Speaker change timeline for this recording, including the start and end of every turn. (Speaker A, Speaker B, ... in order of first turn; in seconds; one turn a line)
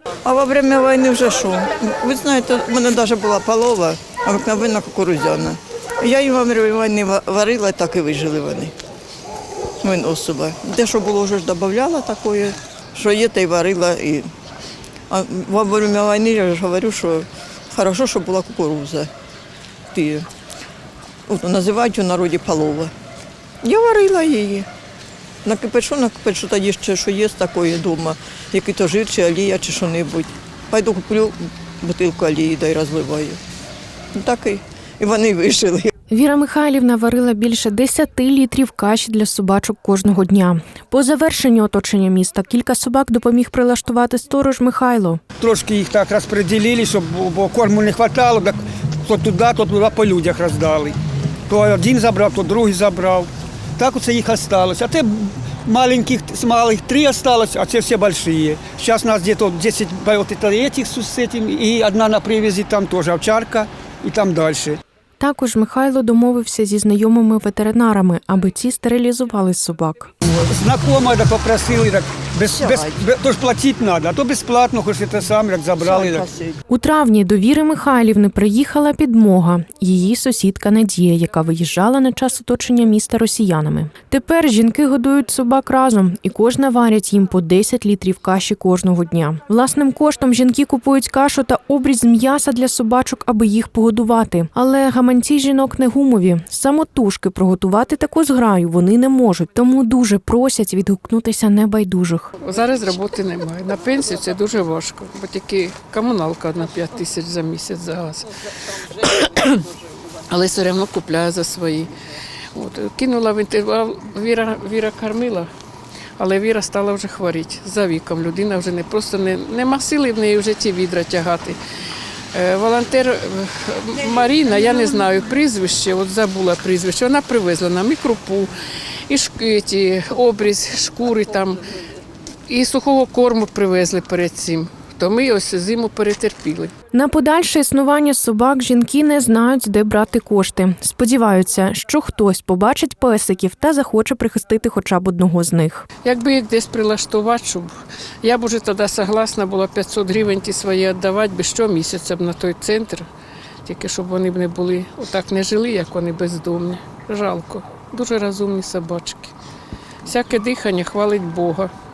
Speaker A: 0.2-8.7
Speaker A: 9.8-14.3
Speaker A: 15.1-19.1
Speaker A: 19.9-20.3
Speaker A: 21.3-22.9
Speaker A: 23.6-24.7
Speaker A: 25.4-33.4
Speaker A: 34.1-35.9
Speaker B: 36.1-45.2
Speaker C: 45.4-51.0
Speaker C: 51.5-64.8
Speaker B: 65.2-70.1
Speaker C: 70.3-76.2
Speaker A: 72.5-73.0
Speaker A: 75.8-76.6
Speaker B: 76.7-102.3
Speaker D: 102.4-108.3
Speaker D: 108.8-109.7
Speaker D: 110.3-111.9
Speaker D: 112.5-115.5
Speaker D: 116.2-121.6
Speaker D: 122.3-128.5
Speaker D: 129.1-131.6
Speaker D: 132.5-136.7
Speaker B: 136.9-145.9
Speaker D: 146.0-153.1
Speaker D: 153.7-159.3
Speaker D: 160.0-161.7